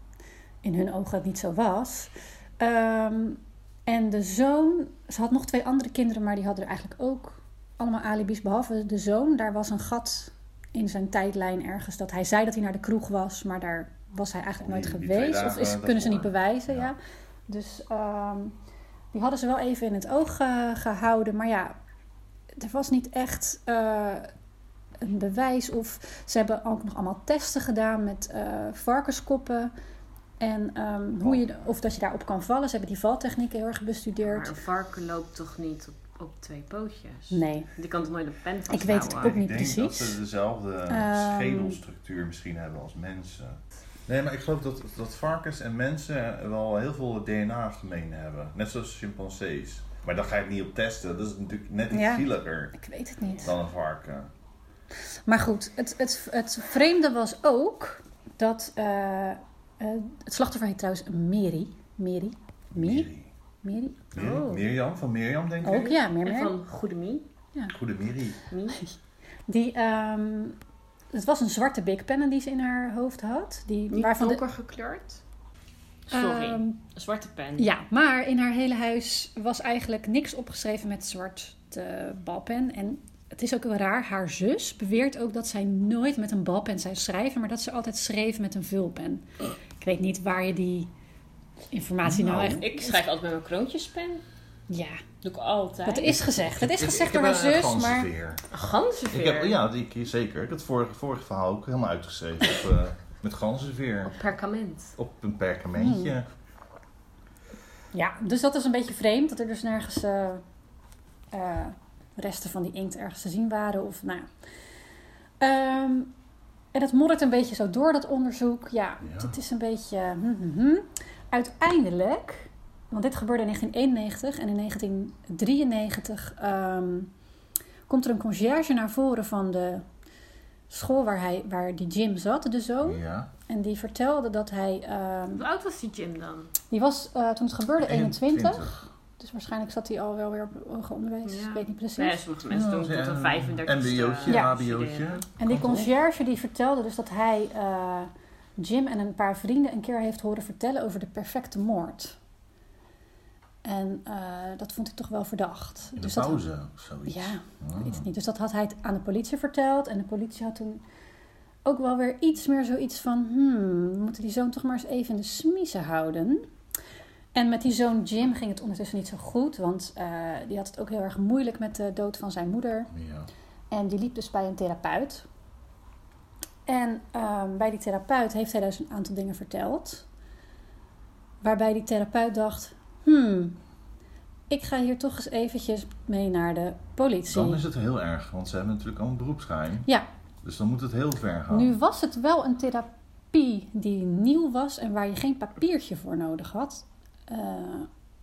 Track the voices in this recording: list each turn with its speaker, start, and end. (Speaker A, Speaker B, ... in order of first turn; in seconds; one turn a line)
Speaker A: 0.6-16.9
Speaker B: 14.6-16.9
Speaker A: 17.5-18.5
Speaker A: 19.1-21.8
Speaker A: 22.6-24.3
Speaker A: 25.0-29.7
Speaker A: 30.4-34.5
Speaker C: 34.2-39.4
Speaker A: 37.3-37.7
Speaker A: 38.7-40.2
Speaker B: 39.0-52.8
Speaker A: 40.9-41.8
Speaker A: 51.9-53.5
Speaker B: 53.4-54.3
Speaker A: 55.3-63.1
Speaker B: 62.7-63.3
Speaker A: 63.6-64.0
Speaker C: 64.1-64.6
Speaker B: 64.1-66.0
Speaker A: 65.6-66.5
Speaker C: 65.7-67.2
Speaker B: 67.7-68.4
Speaker C: 68.5-68.8
Speaker A: 69.5-70.5
Speaker A: 71.1-74.4
Speaker C: 73.9-75.2
Speaker C: 76.1-77.7
Speaker A: 76.1-76.8
Speaker A: 77.6-90.9
Speaker A: 91.7-93.0
Speaker B: 92.0-92.6
Speaker C: 92.4-94.2
Speaker A: 94.7-95.0
Speaker C: 95.2-96.2
Speaker A: 95.8-98.1
Speaker B: 96.1-98.4
Speaker C: 98.5-99.6
Speaker B: 99.1-104.1
Speaker C: 104.0-105.0
Speaker B: 105.0-106.2
Speaker A: 105.7-106.1
Speaker A: 107.9-110.4
Speaker A: 111.3-114.3
Speaker A: 115.4-116.1
Speaker A: 116.7-127.1
Speaker B: 119.0-119.3
Speaker A: 127.9-129.8
Speaker A: 130.7-135.4
Speaker B: 132.8-133.3
Speaker C: 135.3-136.5
Speaker A: 136.7-142.2
Speaker B: 137.8-138.8
Speaker C: 141.2-145.2
Speaker B: 142.5-145.9
Speaker A: 144.2-144.6
Speaker A: 145.4-152.2
Speaker A: 153.6-156.4
Speaker B: 155.9-158.1
Speaker A: 157.1-160.8
Speaker A: 161.6-166.5
Speaker A: 167.3-172.9
Speaker B: 172.9-173.3
Speaker A: 173.7-175.2
Speaker A: 176.7-180.0
Speaker A: 181.4-183.6
Speaker A: 184.5-187.6
Speaker B: 187.3-189.9
Speaker B: 190.4-191.7
Speaker A: 191.5-197.9